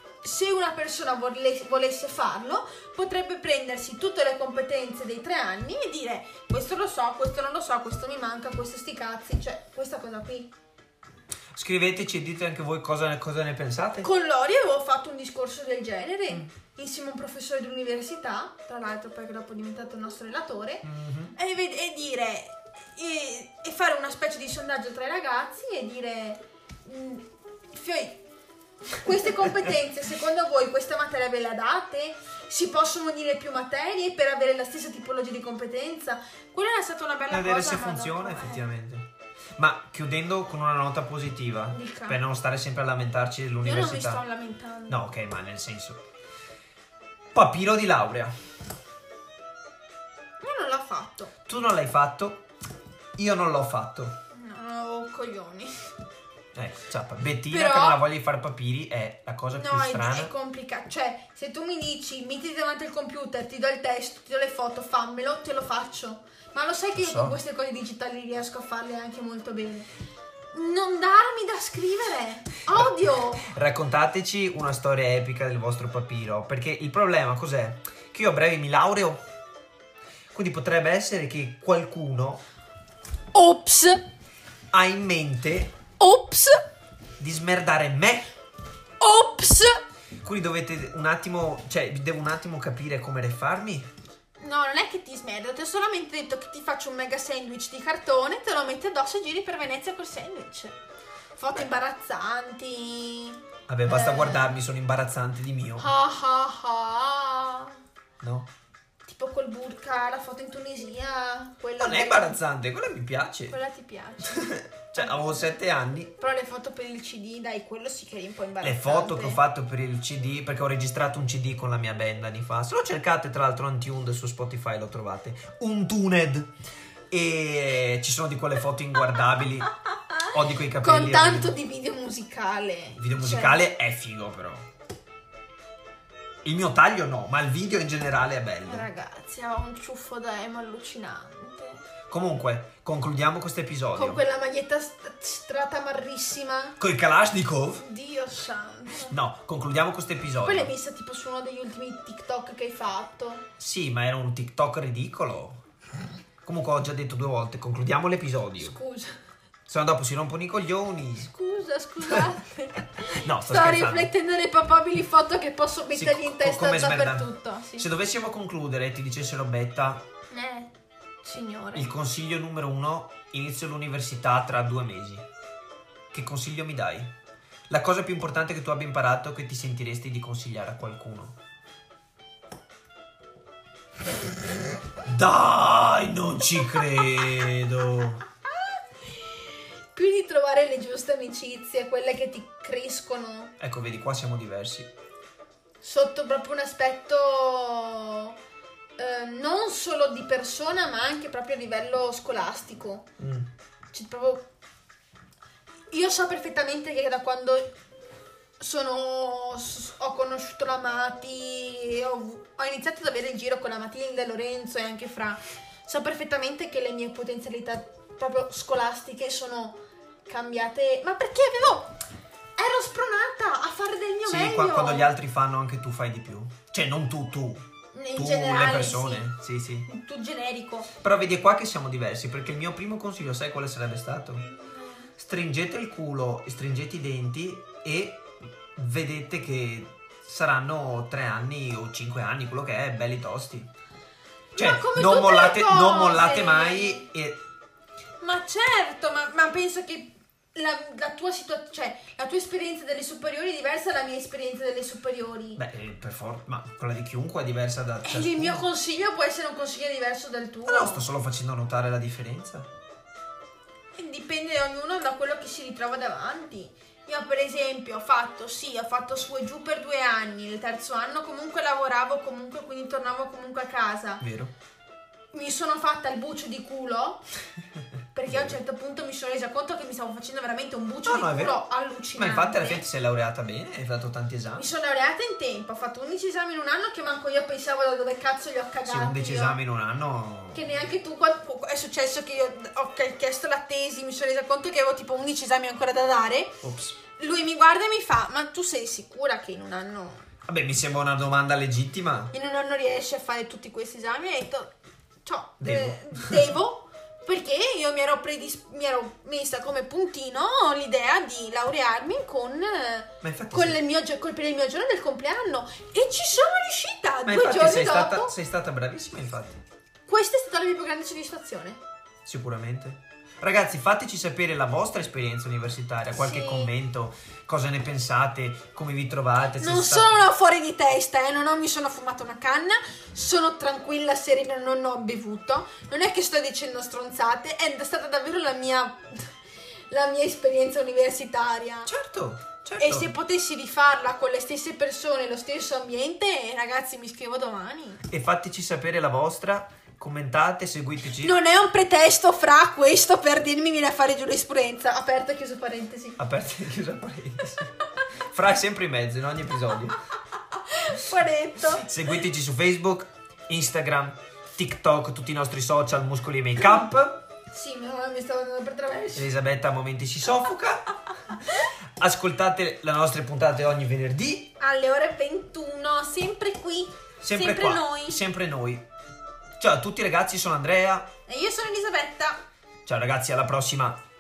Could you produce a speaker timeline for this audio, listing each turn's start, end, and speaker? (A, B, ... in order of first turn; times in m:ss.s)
0:00.2-0:10.5 A
0:11.5-0:14.1 B
0:14.0-0:28.2 A
0:20.8-0:21.4 B
0:28.9-0:38.6 A
0:37.3-0:44.2 B
0:41.7-0:42.2 A
0:43.6-0:45.0 A
0:44.9-0:46.0 B
0:47.3-0:48.3 B
0:50.4-0:51.3 A
0:51.5-0:52.4 B
0:53.2-0:54.2 B
0:54.3-0:55.9 A
0:56.5-1:00.3 B
0:57.5-0:58.0 A
0:59.5-1:09.9 A
1:07.0-1:07.4 B
1:10.5-1:13.5 A
1:12.7-1:19.2 B
1:20.3-1:22.4 B
1:23.3-1:24.0 A
1:24.7-1:25.7 B
1:26.0-1:26.6 A
1:27.2-1:28.3 B
1:29.0-1:29.8 A
1:30.2-1:33.9 B
1:34.4-1:40.8 A
1:41.4-1:44.5 A
1:43.7-1:45.9 B
1:45.8-1:47.8 A
1:48.2-1:48.5 B
1:49.0-1:52.3 A
1:51.8-1:53.6 B
1:53.5-1:55.3 A
1:54.2-1:56.1 B
1:56.2-1:59.4 A
1:58.6-2:06.5 B
2:07.1-2:11.6 B
2:09.9-2:13.6 A
2:13.0-2:14.6 B
2:16.4-2:18.9 B
2:18.7-2:21.8 A
2:22.1-2:24.2 B
2:24.0-2:26.8 A
2:26.8-2:27.8 B
2:27.8-2:29.2 A
2:29.1-2:30.7 B
2:30.4-2:33.4 A
2:33.6-2:35.6 B
2:36.4-2:38.8 B
2:38.6-2:39.2 A
2:39.7-2:41.3 B
2:41.3-2:47.9 A
2:43.0-2:44.1 B
2:46.0-2:50.0 B
2:50.3-2:50.7 A
2:51.2-2:51.9 A
2:51.8-2:55.3 B
2:56.1-2:57.1 B
2:57.7-3:01.4 B
3:05.0-3:08.2 B
3:09.4-3:13.6 A
3:13.6-3:14.9 B
3:15.8-3:18.4 A
3:19.0-3:23.1 A
3:23.2-3:23.5 B
3:23.9-3:24.4 A
3:25.9-3:27.7 A
3:28.6-3:41.9 A
3:42.6-3:45.1 A
3:44.2-3:47.6 B
3:47.9-3:49.2 A
3:48.2-3:49.9 B
3:49.9-3:50.9 A
3:51.0-3:54.4 B
3:54.4-3:55.1 A
3:55.2-4:03.7 B
4:04.6-4:07.1 A
4:04.6-4:07.4 B
4:08.2-4:15.6 A
4:15.6-4:18.6 B
4:18.0-4:21.1 A
4:20.7-4:22.7 B
4:24.0-4:34.2 A
4:34.2-4:34.5 B
4:35.3-4:37.2 A
4:38.1-4:42.9 A
4:38.3-4:38.6 B
4:41.1-4:41.6 B
4:42.2-4:44.7 B
4:44.6-4:49.6 A
4:48.9-4:50.8 B
4:50.5-4:56.6 A
4:56.6-4:57.0 B
4:57.2-5:00.2 A
5:00.4-5:02.3 B
5:02.3-5:18.3 A
5:05.6-5:06.5 B
5:13.2-5:13.8 B
5:17.3-5:19.6 B
5:20.1-5:21.8 A
5:22.2-5:30.3 B
5:26.1-5:26.7 A
5:29.6-5:39.4 A
5:39.9-5:41.9 A
5:41.9-5:43.1 B
5:42.8-5:48.0 A
5:48.1-5:51.4 B
5:51.2-5:56.2 A
5:56.2-6:00.0 B
6:00.6-6:01.9 A
6:01.7-6:07.2 B
6:07.5-6:09.3 A
6:09.1-6:14.5 B
6:14.6-6:18.2 A
6:17.2-6:18.9 B
6:19.6-6:21.1 B
6:21.3-6:22.4 A
6:22.8-6:24.0 B